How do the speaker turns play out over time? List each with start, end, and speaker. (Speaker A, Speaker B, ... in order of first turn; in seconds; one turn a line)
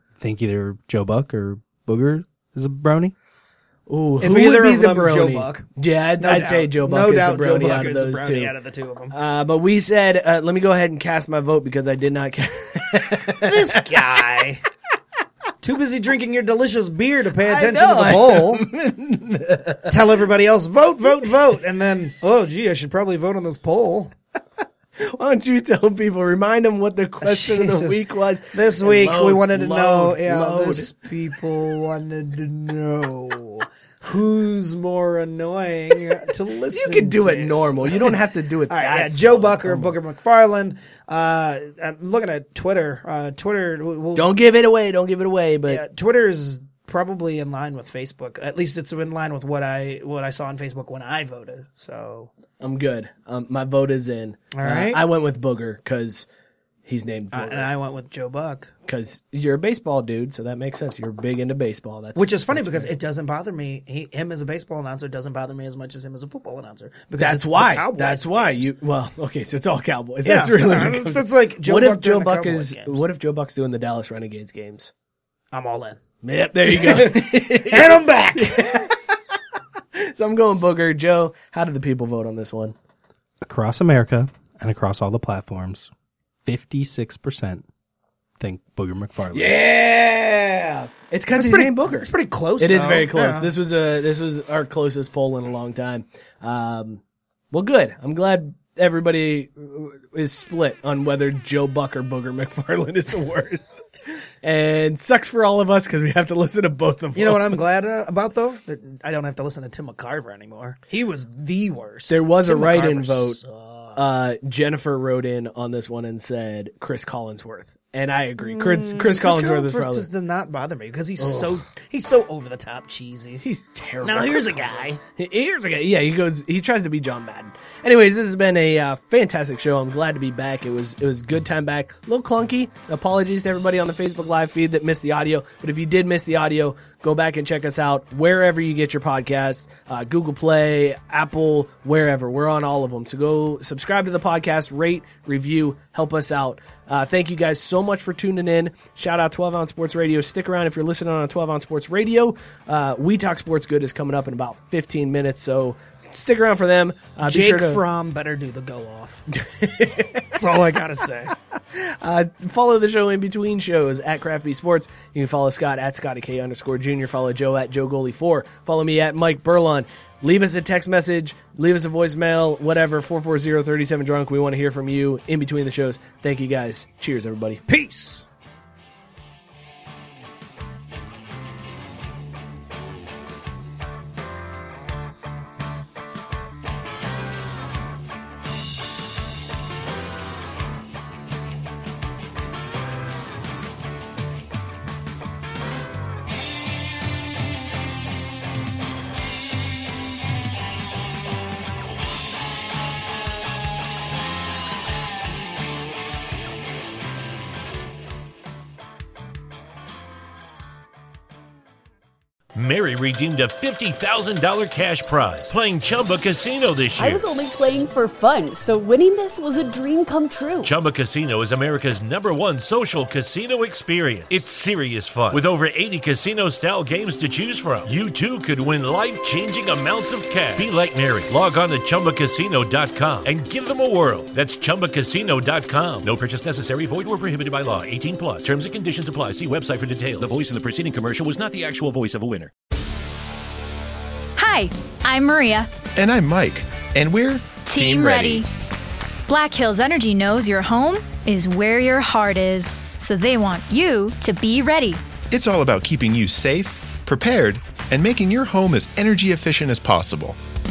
Speaker A: 0.2-3.1
Speaker B: 3.9-8.5
Speaker C: 4.2-9.1
Speaker B: 9.1-14.0
Speaker C: 13.3-14.6
Speaker C: 15.6-18.6
Speaker B: 17.4-19.9
Speaker C: 19.9-24.1
Speaker B: 25.0-30.9
Speaker C: 27.2-44.4
Speaker B: 36.7-40.0
Speaker B: 44.1-45.8
Speaker C: 45.7-52.3
Speaker B: 52.6-56.3
Speaker C: 54.5-55.0
Speaker B: 56.9-57.7
Speaker C: 57.3-58.7
Speaker B: 58.9-62.9
Speaker C: 62.2-68.7
Speaker B: 67.2-74.9
Speaker C: 70.2-73.0
Speaker C: 75.5-76.0
Speaker B: 76.2-79.0
Speaker C: 76.7-78.9
Speaker B: 79.9-82.8
Speaker A: 83.4-85.9
Speaker A: 86.5-87.6
Speaker A: 88.4-89.6
Speaker B: 89.3-92.1
Speaker C: 91.3-93.5
Speaker B: 92.6-103.8
Speaker B: 104.4-107.6
Speaker C: 107.2-114.0
Speaker B: 112.1-113.4
Speaker B: 114.0-120.1
Speaker C: 118.4-123.4
Speaker B: 121.2-121.5
Speaker B: 123.4-157.8
Speaker C: 124.0-125.0
Speaker C: 157.2-159.3
Speaker B: 159.3-160.4
Speaker C: 160.3-161.3
Speaker B: 161.7-177.7
Speaker C: 177.7-178.2
Speaker D: 212.6-217.2
Speaker E: 217.0-220.7
Speaker D: 220.6-242.5
Speaker F: 244.4-245.7
Speaker G: 246.0-248.4
Speaker F: 247.7-248.5
Speaker F: 249.3-255.0
Speaker G: 255.3-260.4